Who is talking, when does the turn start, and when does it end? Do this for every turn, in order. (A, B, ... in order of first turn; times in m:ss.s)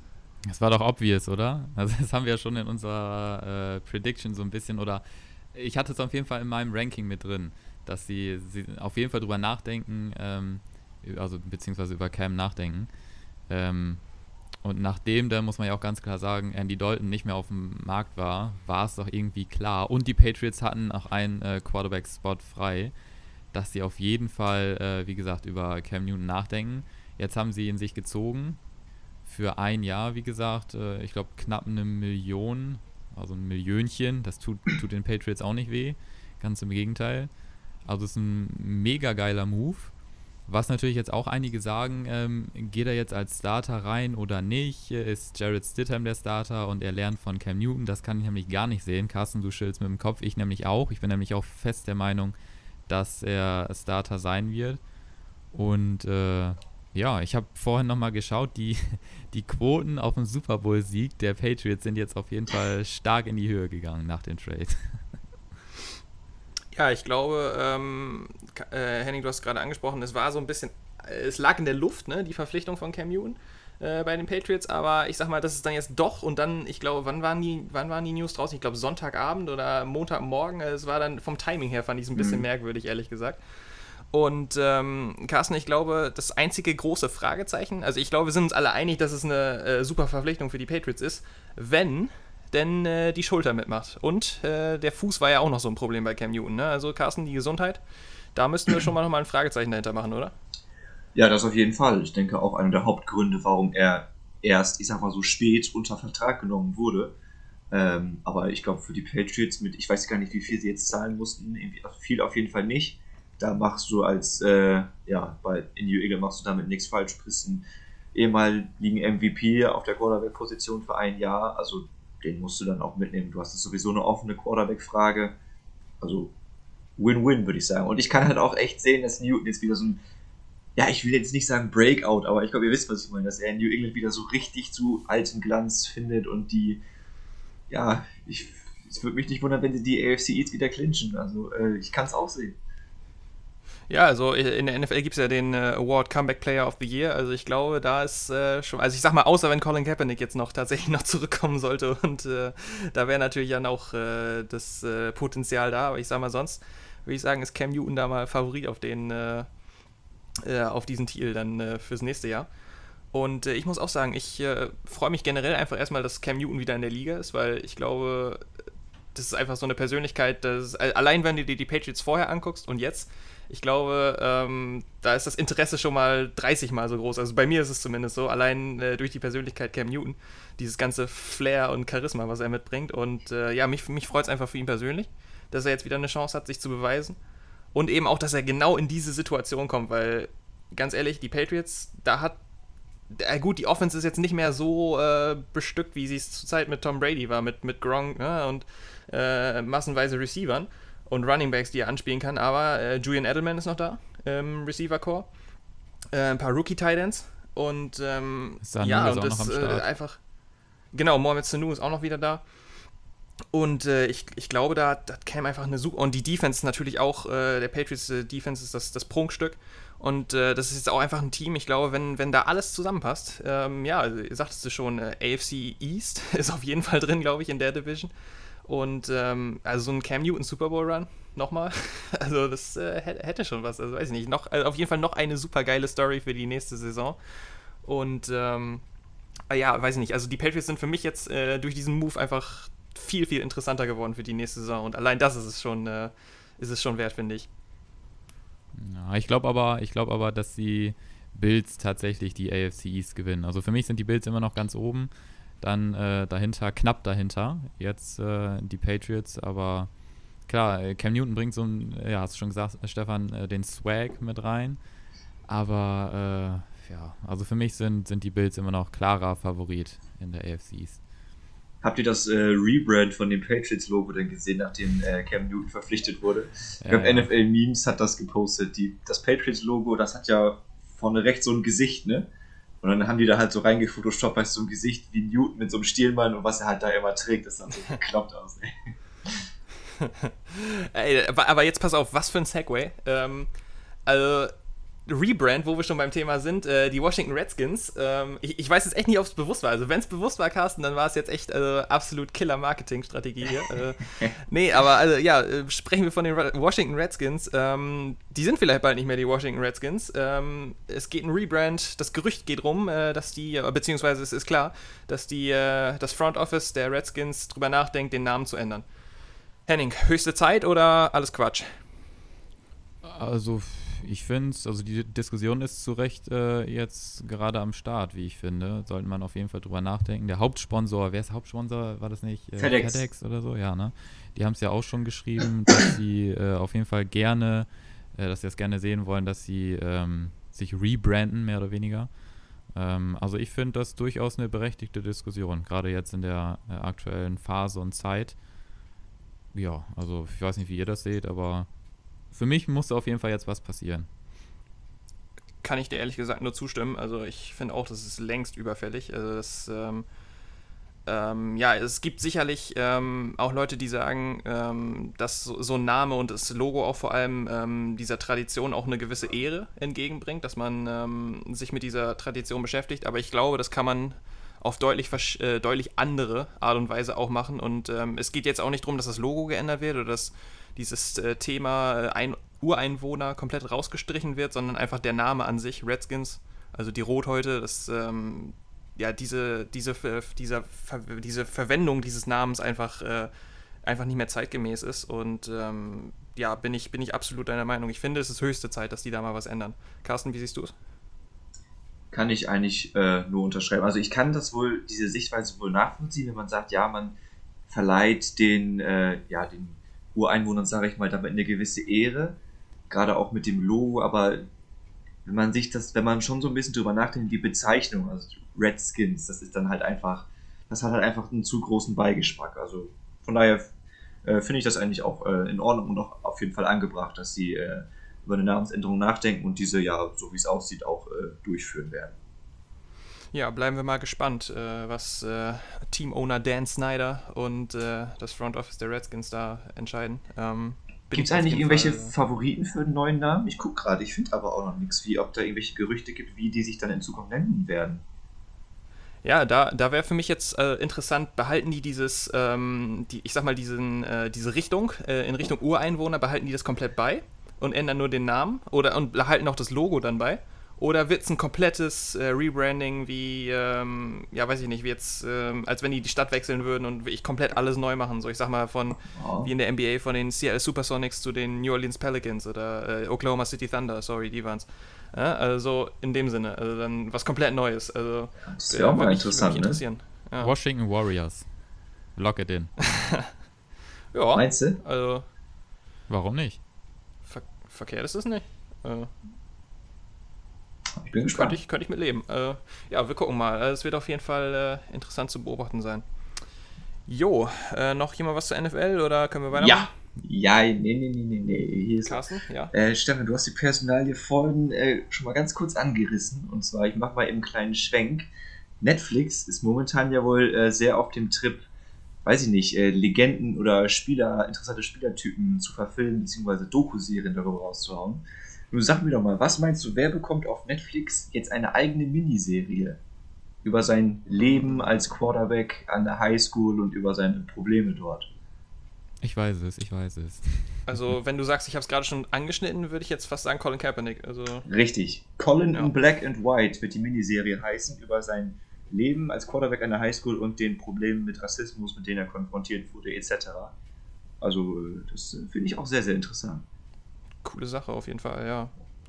0:00.4-0:12.9 A
0:13.5-0:14.0 A
0:14.6-0:22.9 A
0:23.5-0:28.6 A
0:29.2-0:37.3 A
0:37.8-0:39.9 A
0:40.5-0:52.3 A
0:52.9-0:54.8 A
0:55.5-1:05.0 A
1:06.7-1:23.4 B
1:22.2-1:22.4 C
1:24.1-1:37.8 B
1:38.3-1:40.3 B
1:41.1-1:47.2 C
1:47.7-2:05.4 C
2:06.0-2:06.3 C
2:07.0-2:10.0 C
2:10.8-2:16.8 C
2:17.7-2:22.6 C
2:23.9-2:39.5 B
2:40.4-2:42.5 B
2:43.1-2:48.4 B
2:49.1-3:07.2 B
3:07.7-3:12.4 B
3:13.1-3:25.3 B
3:26.1-3:30.2 B
3:28.6-3:29.9 A
3:30.9-3:32.4 B
3:33.5-3:48.1 B
3:48.6-3:57.2 B
3:57.8-3:58.8 B
3:59.5-4:07.5 B
4:08.8-4:19.9 A
4:20.5-4:24.8 A
4:25.5-4:31.0 A
4:31.8-4:42.3 C
4:36.8-4:37.3 A
4:42.8-4:48.7 C
4:50.0-4:53.5 B
4:54.0-4:54.5 B
4:55.0-5:18.8 B
5:19.6-5:21.8 B
5:23.0-5:42.1 A
5:32.6-5:33.0 C
5:42.7-5:48.4 A
5:49.5-5:51.7 A
5:52.3-5:54.1 A
5:55.6-6:00.0 B
6:01.0-6:33.3 B
6:33.8-6:40.7 B
6:42.1-6:47.2 C
6:47.7-6:52.4 C
6:52.9-6:54.4 C
6:55.2-7:03.7 C
7:04.2-7:12.2 C
7:13.3-7:22.1 B
7:21.1-7:28.0 C
7:29.2-8:00.5 B
7:49.1-7:49.5 C
7:58.4-7:59.8 C
8:00.4-8:01.5 A
8:02.1-8:02.9 A
8:04.1-8:05.2 B
8:04.3-8:04.8 C
8:06.1-8:06.6 A
8:07.2-8:09.1 B
8:11.0-8:11.6 C
8:11.2-8:16.0 B
8:17.1-8:19.9 B
8:19.5-8:28.3 C
8:22.0-8:22.7 B
8:28.8-8:31.7 C
8:32.2-8:43.0 C
8:43.6-8:48.3 C
8:49.2-8:51.1 A
8:50.9-8:54.6 B
8:54.7-9:03.7 C
9:04.4-9:06.6 C
9:07.4-9:08.7 B